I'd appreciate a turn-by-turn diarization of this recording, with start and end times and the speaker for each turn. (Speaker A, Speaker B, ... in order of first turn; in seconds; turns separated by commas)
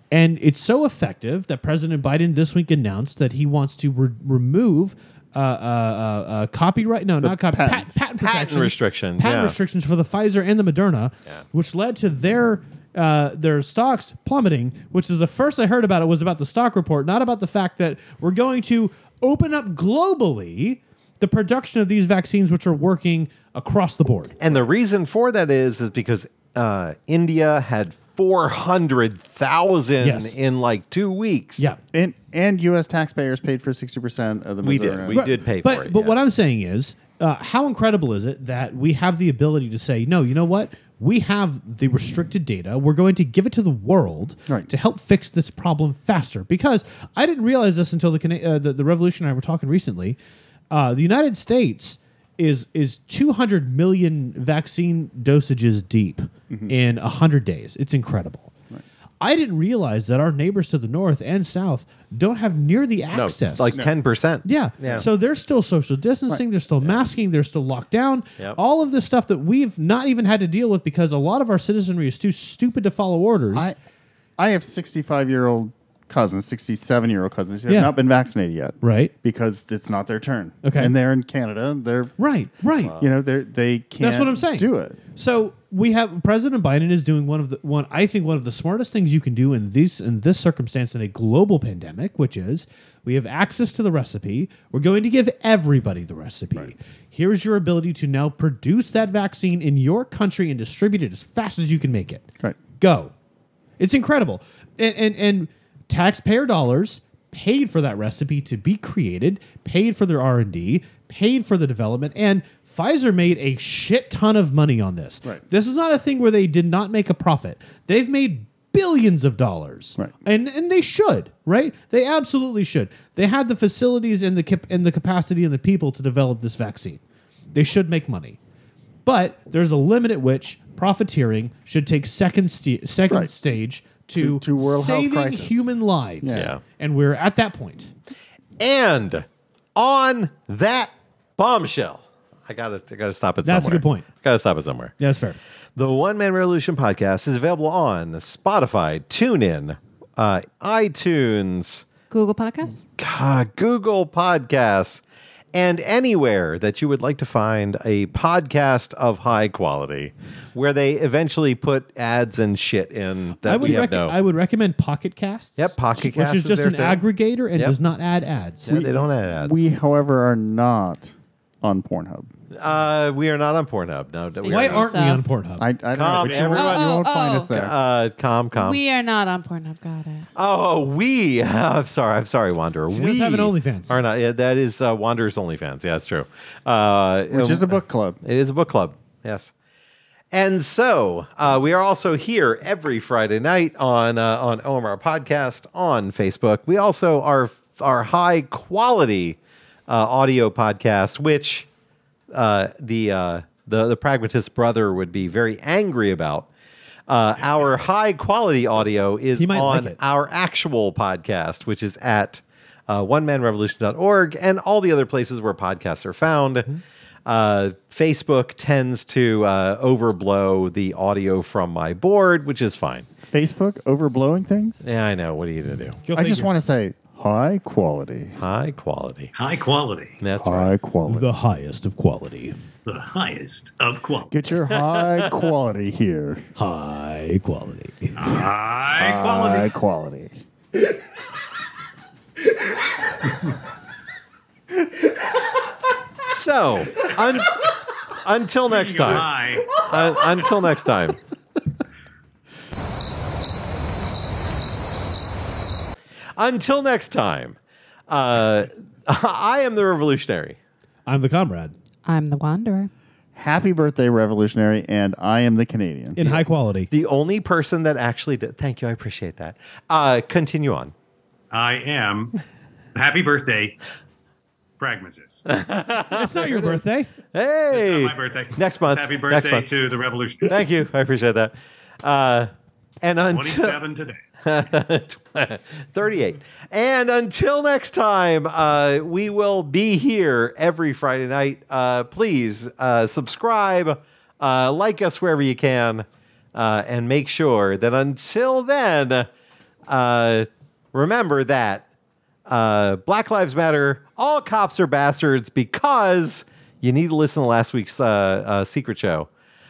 Speaker A: 0.1-24.4, Speaker B: 7.2-8.0, Speaker C: 8.2-9.6, Speaker C: 24.4-31.7, Speaker A: 30.0-30.4, Speaker B: 31.9-35.2, Speaker C: 34.6-36.1, Speaker A: 35.1-50.2, Speaker A: 50.7-58.5, Speaker A: 59.2-63.8, Speaker C: 63.1-65.0, Speaker A: 64.4-73.7, Speaker B: 74.4-82.1, Speaker A: 77.7-77.9, Speaker A: 78.8-79.1, Speaker A: 80.6-80.9, Speaker A: 82.2-82.9, Speaker B: 82.9-85.0, Speaker A: 84.0-102.2, Speaker A: 102.8-103.1, Speaker A: 103.8-127.0, Speaker A: 127.5-128.4, Speaker A: 129.0-137.9, Speaker B: 133.1-133.4, Speaker B: 134.1-135.7, Speaker B: 136.2-136.5, Speaker C: 136.3-136.6, Speaker C: 138.6-144.9, Speaker A: 143.4-144.0, Speaker A: 145.0-145.4, Speaker C: 145.8-151.8, Speaker D: 152.1-152.8, Speaker C: 153.0-155.0, Speaker C: 155.5-164.2, Speaker A: 163.4-168.7, Speaker C: 165.6-167.8, Speaker C: 168.6-169.6, Speaker B: 168.7-171.1, Speaker B: 171.6-172.3, Speaker C: 172.5-174.9, Speaker D: 174.4-175.2, Speaker A: 174.5-175.7, Speaker B: 175.6-177.7, Speaker C: 175.9-176.9, Speaker D: 176.4-177.6, Speaker C: 177.5-178.8, Speaker D: 178.5-180.3, Speaker C: 180.3-189.5, Speaker A: 182.9-184.0, Speaker B: 187.3-188.2, Speaker C: 190.3-201.7, Speaker C: 202.3-206.5, Speaker C: 207.1-216.7, Speaker A: 209.3-210.0, Speaker C: 217.2-223.1, Speaker B: 223.3-224.8, Speaker C: 224.8-226.0, Speaker A: 226.0-226.5, Speaker B: 226.1-228.4, Speaker C: 228.4-229.3, Speaker E: 229.3-230.2, Speaker C: 230.2-230.7, Speaker B: 230.4-231.2, Speaker A: 231.1-232.6, Speaker E: 232.8-234.3, Speaker B: 234.3-236.4, Speaker C: 234.9-235.3, Speaker A: 236.6-238.3, Speaker E: 238.2-239.7, Speaker B: 238.9-240.4, Speaker C: 246.2-251.2, Speaker E: 248.7-249.8, Speaker C: 256.4-257.6, Speaker C: 258.1-260.6, Speaker A: 261.1-261.7, Speaker D: 262.1-262.9, Speaker B: 263.3-266.2, Speaker A: 266.1-266.9, Speaker C: 266.2-270.9, Speaker E: 271.5-272.4, Speaker E: 272.9-273.8, Speaker E: 274.8-275.4, Speaker C: 275.5-276.8, Speaker A: 276.1-277.1, Speaker C: 277.3-279.7, Speaker E: 277.7-280.6, Speaker C: 280.4-282.5, Speaker C: 283.0-283.8, Speaker E: 283.3-284.2, Speaker C: 284.4-299.3, Speaker C: 299.9-301.9, Speaker C: 302.5-309.3